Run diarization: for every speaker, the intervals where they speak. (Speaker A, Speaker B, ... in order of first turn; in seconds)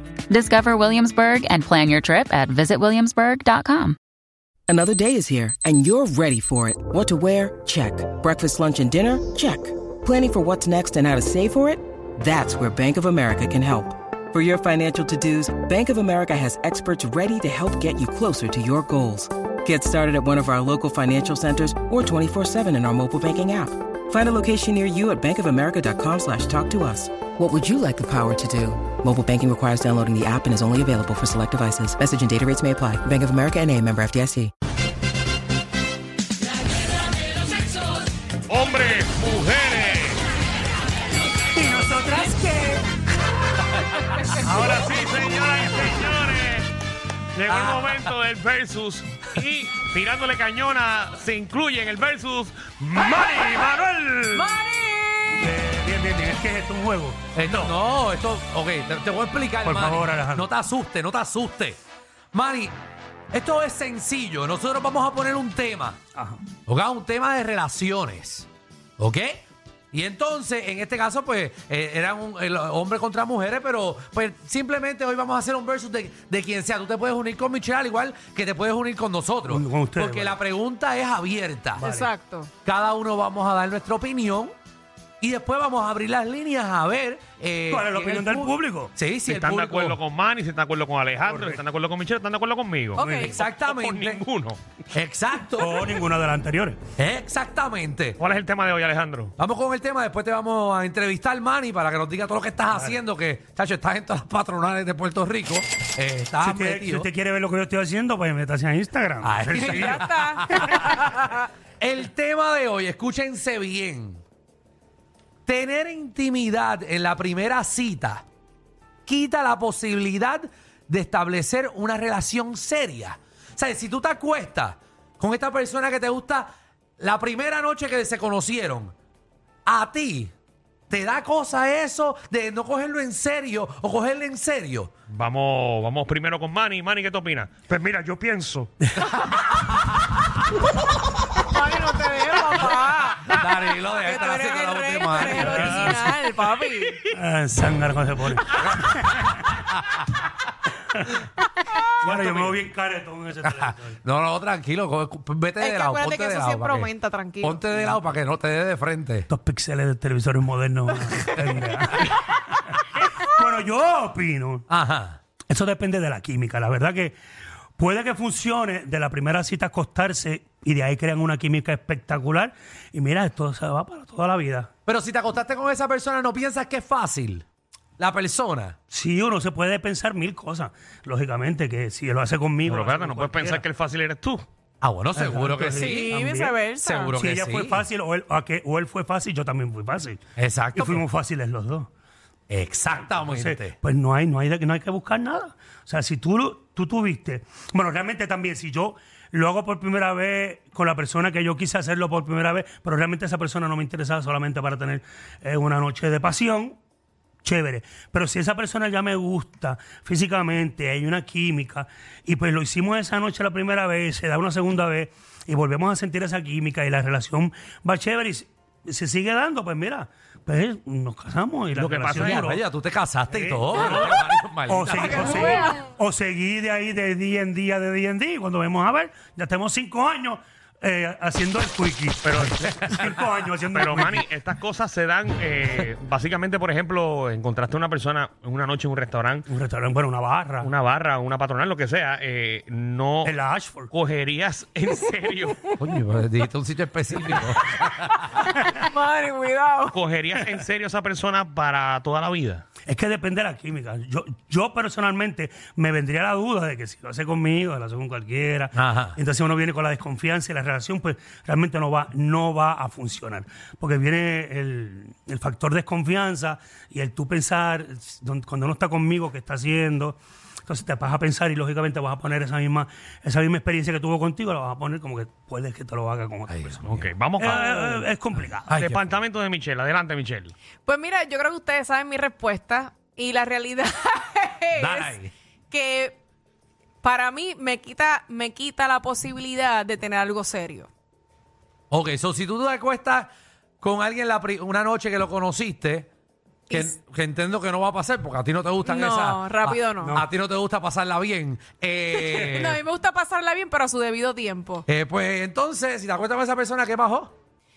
Speaker A: 0.3-4.0
Speaker B: 4.7-34.5
Speaker C: 38.5-40.2, 44.6-46.7, 47.3-54.4, 89.3-94.6, 98.2-99.3, 135.1-138.7, 182.7-184.4, 221.7-222.5, 223.7-224.2, 232.2-232.6, 233.7-239.5, 240.6-243.3, 243.9-245.8, 249.9-252.6, 276.8-278.1, 278.8-280.5
Speaker D: 41.5-42.8, 44.3-46.1, 55.3-57.7, 59.6-60.5, 66.1-66.4, 79.4-80.4, 81.8-82.1, 87.7-88.9, 91.2-91.6, 95.5-96.8, 102.7-103.0, 106.4-110.8, 145.3-146.1, 147.1-149.6, 152.0-154.0, 159.3-162.2, 162.8-164.7, 165.5-167.2, 167.8-174.7, 178.9-183.6, 185.1-186.6, 187.2-190.2, 190.7-191.9, 193.2-206.8, 207.4-222.6, 223.3-234.2, 239.5-240.7, 243.2-243.9, 252.8-276.8, 277.4-278.7, 300.0-300.3
Speaker E: 47.5-48.1, 57.4-61.8, 62.3-62.8, 63.3-66.0, 66.7-68.5, 69.0-81.8, 82.6-84.5, 85.2-90.0, 93.2-94.2, 94.9-95.8, 97.0-98.2, 99.4-107.1, 109.2-110.6, 111.8-114.2, 115.5-118.2, 119.0-128.9, 129.7-130.3, 130.9-134.9, 143.2-146.0, 152.3-152.6, 153.5-156.9, 157.4-159.3, 164.7-165.2, 174.8-177.4, 178.0-178.8, 184.8-186.1, 186.8-187.8, 190.4-191.0, 192.5-193.7, 222.2-225.3, 245.8-248.0, 258.7-259.1, 276.5-276.8, 278.7-279.1, 284.8-285.3, 291.9-293.3, 293.8-296.1, 296.7-302.8, 304.9-307.3
Speaker F: 54.3-55.5, 81.8-82.5, 92.9-93.4, 109.5-111.5, 141.4-147.1, 155.6-157.7, 185.8-187.1, 224.9-225.9, 247.6-249.9, 280.8-286.2, 287.0-290.9, 296.7-297.0, 298.8-300.2, 302.1-304.8